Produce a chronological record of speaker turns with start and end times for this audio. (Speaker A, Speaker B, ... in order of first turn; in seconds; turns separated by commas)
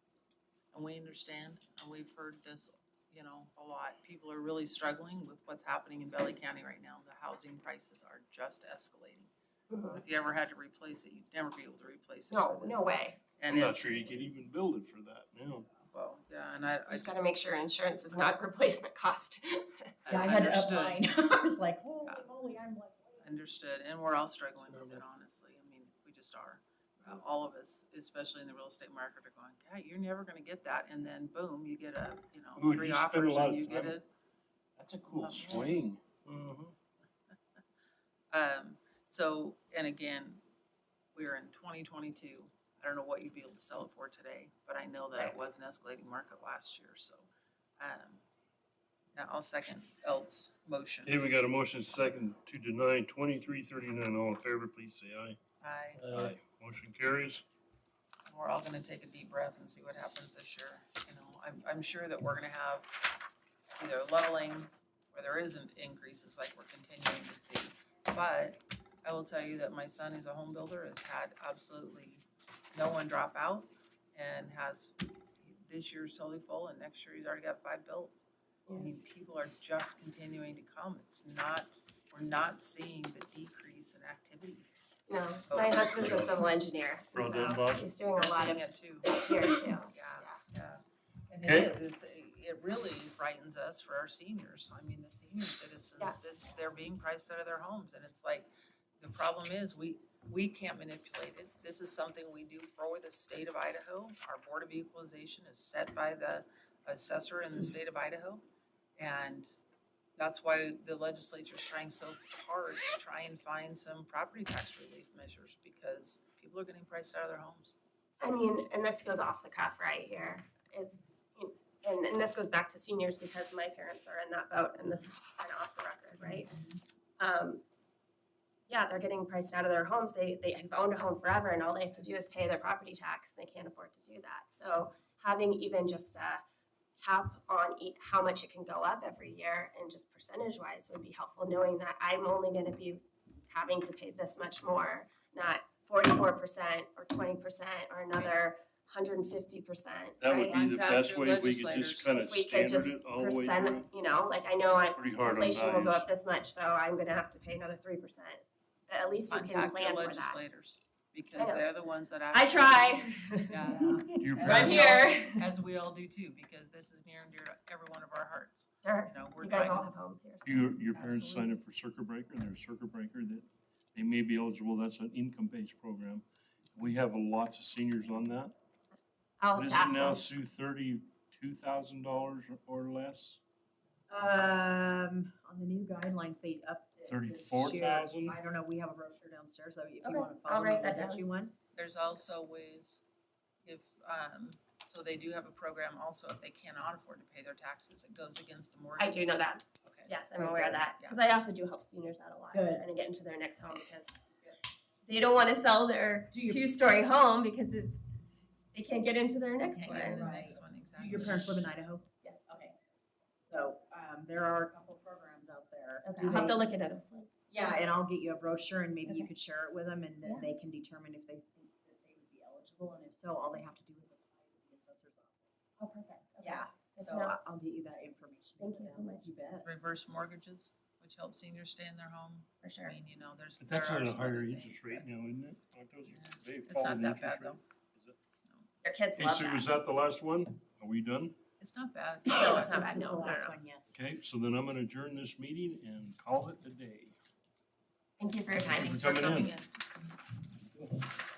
Speaker A: 0.7-9.3, Speaker B: 9.7-10.0, Speaker A: 9.9-14.2, Speaker B: 12.3-13.2, Speaker C: 13.5-15.7, Speaker A: 15.7-17.3, Speaker B: 16.9-19.9, Speaker A: 20.1-21.1, Speaker D: 20.1-23.2, Speaker A: 23.2-34.0, Speaker C: 24.7-25.0, Speaker C: 32.6-34.0, Speaker C: 34.8-36.7, Speaker A: 35.1-35.8, Speaker A: 38.3-40.4, Speaker A: 41.1-47.3, Speaker A: 47.8-48.2, Speaker A: 49.1-51.2, Speaker C: 51.0-55.4, Speaker A: 55.6-56.3, Speaker C: 56.0-57.4, Speaker A: 58.3-63.0, Speaker A: 63.8-84.7, Speaker B: 85.1-90.4, Speaker A: 85.5-86.0, Speaker C: 87.1-87.9, Speaker A: 88.2-98.5, Speaker C: 91.4-91.7, Speaker A: 99.0-108.4, Speaker A: 109.0-109.5, Speaker A: 110.2-117.8, Speaker B: 118.2-126.5, Speaker B: 127.2-127.6, Speaker B: 128.7-136.4, Speaker B: 137.0-150.6, Speaker C: 150.2-153.9, Speaker A: 150.5-152.1, Speaker B: 152.2-160.4, Speaker C: 154.9-156.1, Speaker A: 159.3-169.9, Speaker B: 161.3-161.7, Speaker B: 162.3-165.4, Speaker D: 163.6-164.8, Speaker C: 164.2-165.0, Speaker B: 168.8-171.2, Speaker C: 170.4-178.5, Speaker A: 170.9-171.4, Speaker B: 179.4-180.2, Speaker C: 179.5-183.4, Speaker D: 184.1-191.5, Speaker C: 187.1-188.3, Speaker B: 190.0-191.2, Speaker A: 191.7-193.0, Speaker A: 193.6-201.2, Speaker B: 199.0-204.2, Speaker D: 202.5-202.8, Speaker B: 205.0-208.0, Speaker D: 206.3-206.7, Speaker B: 208.7-210.2, Speaker A: 209.7-211.7, Speaker D: 209.8-212.8, Speaker D: 213.4-216.6, Speaker B: 216.0-217.3, Speaker D: 217.5-225.6, Speaker B: 225.8-227.4, Speaker D: 226.4-229.7, Speaker B: 228.6-229.3, Speaker A: 229.6-235.0, Speaker B: 232.6-232.9, Speaker C: 233.6-238.2, Speaker A: 236.1-237.6, Speaker B: 238.8-239.7, Speaker C: 239.2-241.3, Speaker A: 241.6-242.8, Speaker D: 242.3-244.0, Speaker B: 242.3-243.5, Speaker C: 243.9-247.2, Speaker B: 248.2-249.1, Speaker A: 248.7-249.7, Speaker C: 248.7-249.5